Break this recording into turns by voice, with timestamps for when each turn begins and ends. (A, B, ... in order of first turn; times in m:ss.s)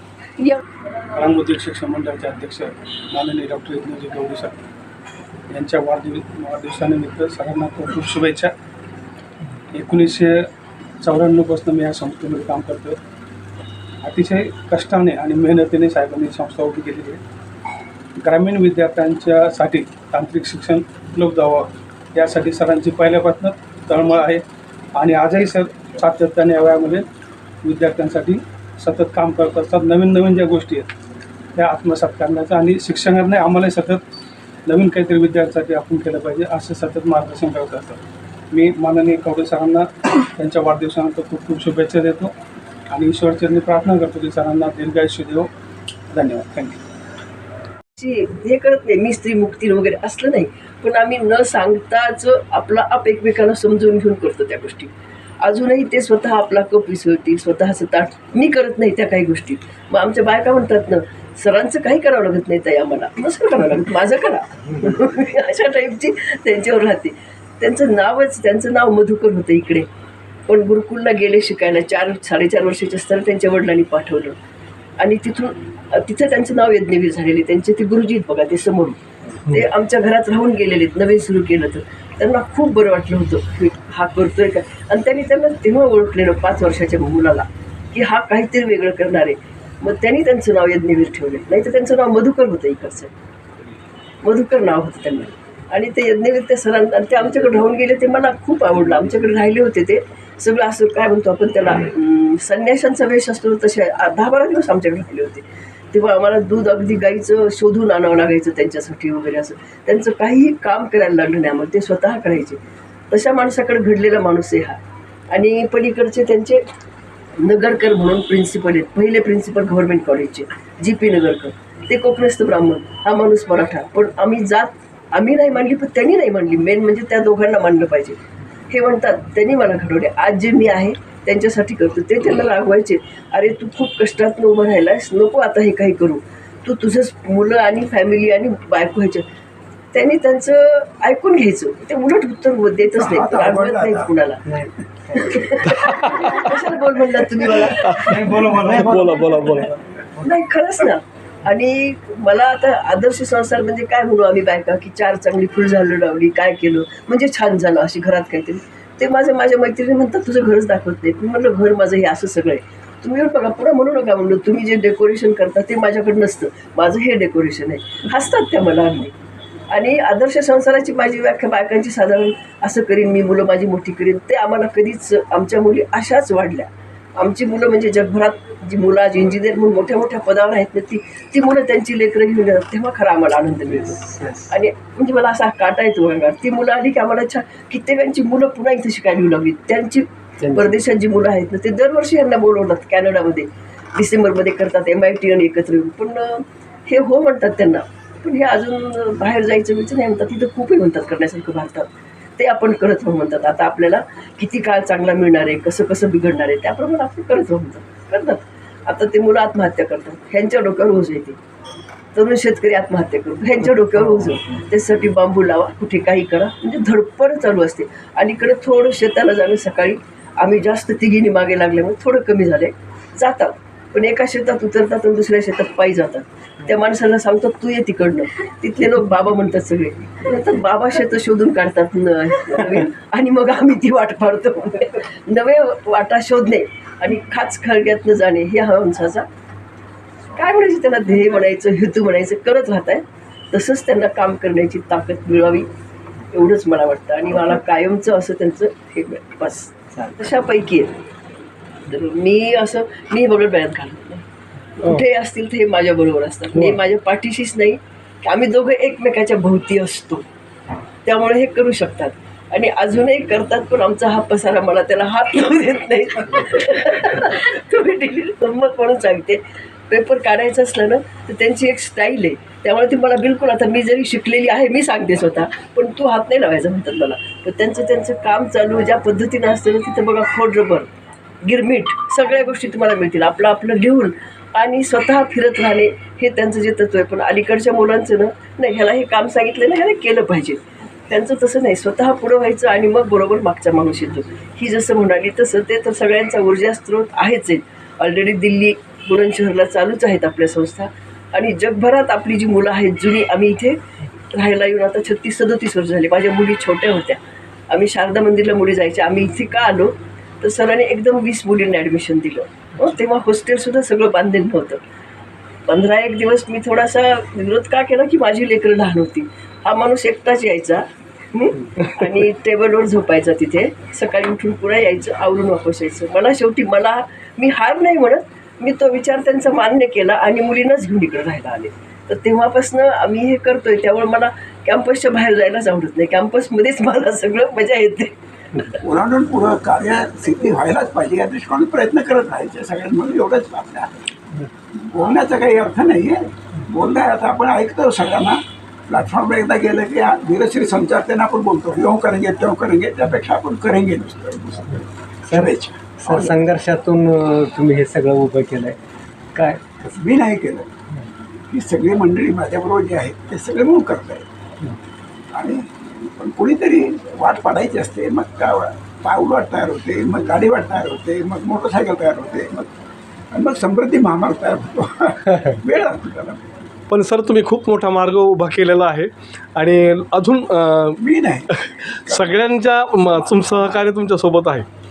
0:01.1-0:04.5 A
0:05.5-0:08.5 A
0:09.7-0:10.4 A
0:11.0-0:13.0 A
0:14.0-0:17.2 A
0:18.2-0:24.4 A
0:25.0-0:27.0 A
0:27.6-0:30.9 A
0:31.6-0:34.0 A
0:34.6-0:38.0 A
0:38.5-0:42.3 A
0:42.9-0:45.5 A
0:46.1-0:46.8 A
0:48.0-0:54.9 B
0:55.4-1:09.9 B
1:10.5-1:14.4 B
1:15.0-1:33.1 B
1:34.2-1:52.6 B
1:53.1-1:54.8 B
1:55.3-1:56.6 B
1:57.4-2:08.2 B
2:08.7-2:19.2 B
2:19.9-2:24.4 B
2:22.9-2:24.1 C
2:24.5-2:25.2 D
2:25.1-2:29.2 B
2:25.8-2:26.5 E
2:27.8-2:28.2 E
2:28.2-2:28.7 A
2:28.7-2:29.7 E
2:30.2-2:49.1 B
2:49.7-3:31.4 B
3:03.6-3:04.5 D
3:10.4-3:10.8 D
3:32.1-3:59.2 B
4:00.3-4:05.7 B
4:06.3-4:10.9 B
4:11.9-4:14.2 B
4:14.8-4:20.2 B
4:21.0-4:40.9 B
4:41.4-5:03.8 B
5:04.3-5:14.8 B
5:15.7-5:38.1 B
5:38.8-5:44.0 C
5:44.7-5:56.4 C
5:55.3-5:55.5 D
5:56.0-5:58.8 D
5:59.3-5:59.6 D
5:59.8-6:00.7 C
6:01.5-6:04.2 C
6:05.3-6:12.7 C
6:13.3-6:16.4 C
6:16.9-6:21.0 E
6:21.0-6:23.8 C
6:22.1-6:24.7 E